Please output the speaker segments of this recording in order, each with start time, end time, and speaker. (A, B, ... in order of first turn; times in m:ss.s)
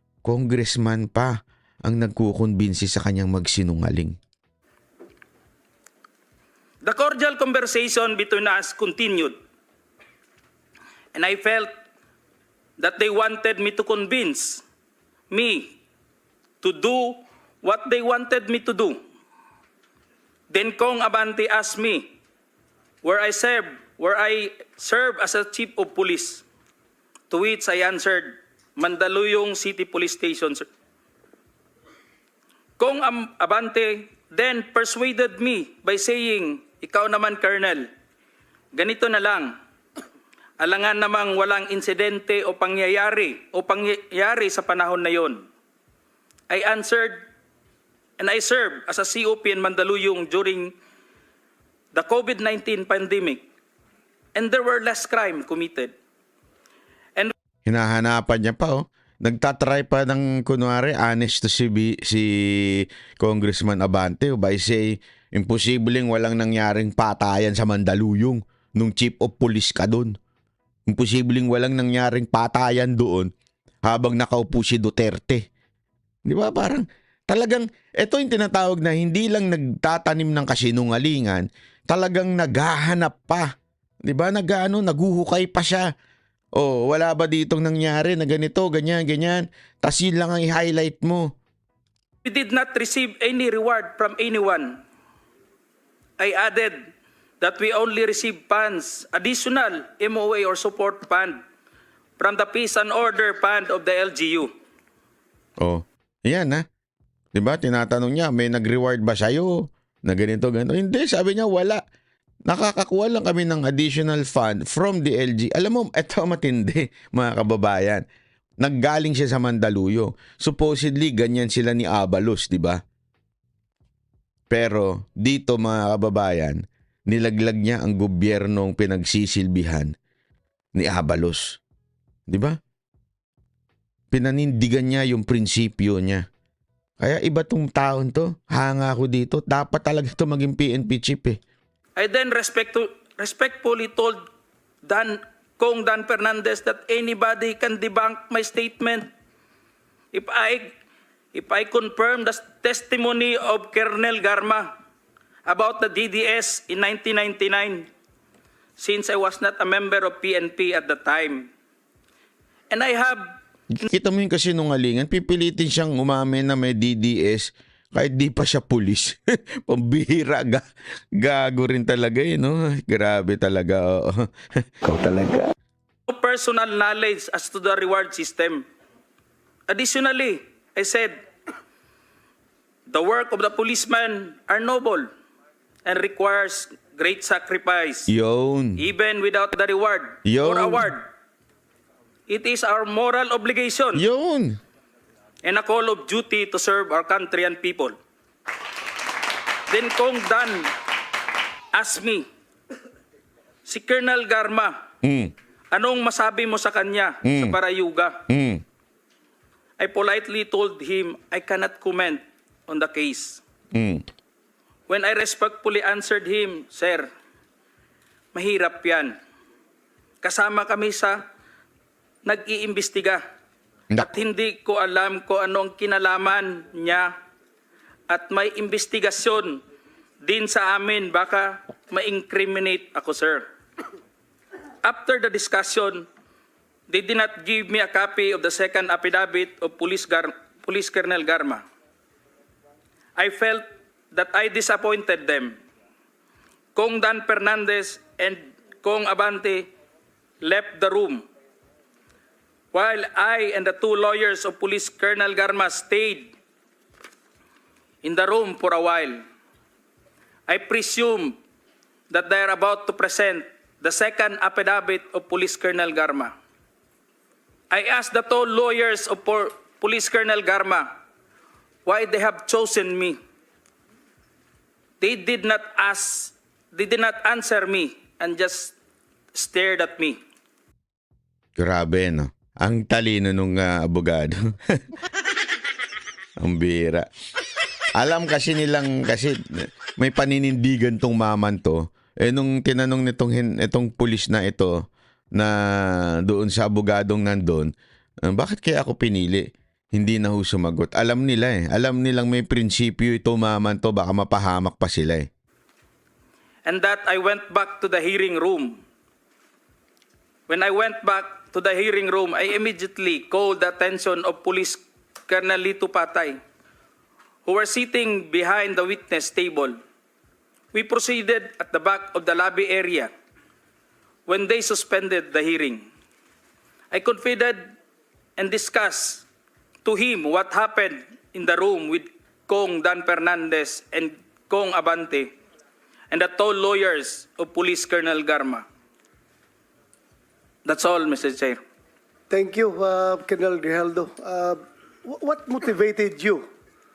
0:00.2-0:04.2 A
0:06.8-0:09.4 B
0:11.1-0:11.7 B
0:12.8-0:14.6 B
0:15.3-0:15.8 B
0:16.6-0:19.0 B
0:20.5-0:22.1 B
0:23.0-0:26.4 B
0:27.3-0:30.6 B
0:32.8-0:37.9 B
0:38.7-0:39.5 B
0:40.6-0:45.4 B
0:46.5-0:47.2 B
0:48.2-0:50.7 B
0:51.9-0:53.4 B
0:54.4-0:55.9 B
0:57.7-1:10.1 A
1:10.9-1:13.3 A
1:13.8-1:15.4 A
1:16.3-1:23.5 A
1:24.0-1:25.9 A
1:26.6-1:31.3 A
1:32.2-1:34.8 B
1:36.2-1:36.9 B
1:37.4-1:41.4 B
1:42.2-1:44.5 B
1:45.6-1:46.6 A
1:47.3-1:51.8 A
1:52.5-1:58.0 A
1:58.6-2:02.8 A
2:04.5-2:09.9 A
2:10.7-2:11.6 A
2:12.3-2:12.6 A
2:14.1-2:16.2 A
2:17.0-2:21.4 A
2:22.0-2:24.2 B
2:24.8-2:29.1 B
2:30.1-2:30.7 B
2:31.3-2:34.7 B
2:35.4-2:37.9 B
2:38.8-2:41.5 B
2:42.7-2:43.3 B
2:43.7-2:50.6 A
2:51.2-2:54.3 A
2:54.8-2:55.5 A
2:56.1-2:58.6 B
2:59.7-3:01.2 B
3:02.9-3:05.1 B
3:05.8-3:08.1 B
3:08.1-3:08.8 A
3:08.8-3:11.0 B
3:10.2-3:10.9 A
3:12.3-3:14.0 B
3:13.9-3:14.6 A
3:15.4-3:17.9 B
3:19.7-3:20.7 B
3:21.7-3:22.2 B
3:23.6-3:24.8 B
3:25.0-3:25.3 A
3:25.7-3:28.2 B
3:27.2-3:27.6 A
3:28.3-3:28.6 A
3:29.8-3:33.4 B
3:33.7-3:34.0 A
3:34.9-3:37.1 B
3:38.3-3:39.2 B
3:40.2-3:41.2 B
3:42.2-3:43.2 B
3:44.0-3:47.1 B
3:48.1-3:49.6 B
3:50.2-3:53.4 B
3:54.8-3:56.1 B
3:56.9-4:01.6 B
4:03.2-4:05.6 B
4:06.8-4:09.7 B
4:10.4-4:11.2 B
4:12.7-4:16.3 B
4:18.0-4:19.2 B
4:20.5-4:21.4 B
4:22.1-4:26.3 B
4:27.7-4:30.9 B
4:31.8-4:33.2 B
4:35.0-4:38.7 B
4:39.3-4:40.2 B
4:41.6-4:44.8 A
4:46.4-4:47.0 A
4:48.0-4:57.7 A
4:58.2-5:05.3 A
5:06.6-5:08.8 B
5:10.5-5:16.4 B
5:17.4-5:19.8 B
5:20.7-5:23.1 B
5:24.3-5:25.8 B
5:26.9-5:27.7 B
5:28.4-5:29.2 B
5:29.8-5:35.3 B
5:36.1-5:38.6 B
5:40.6-5:41.6 B
5:42.3-5:46.5 C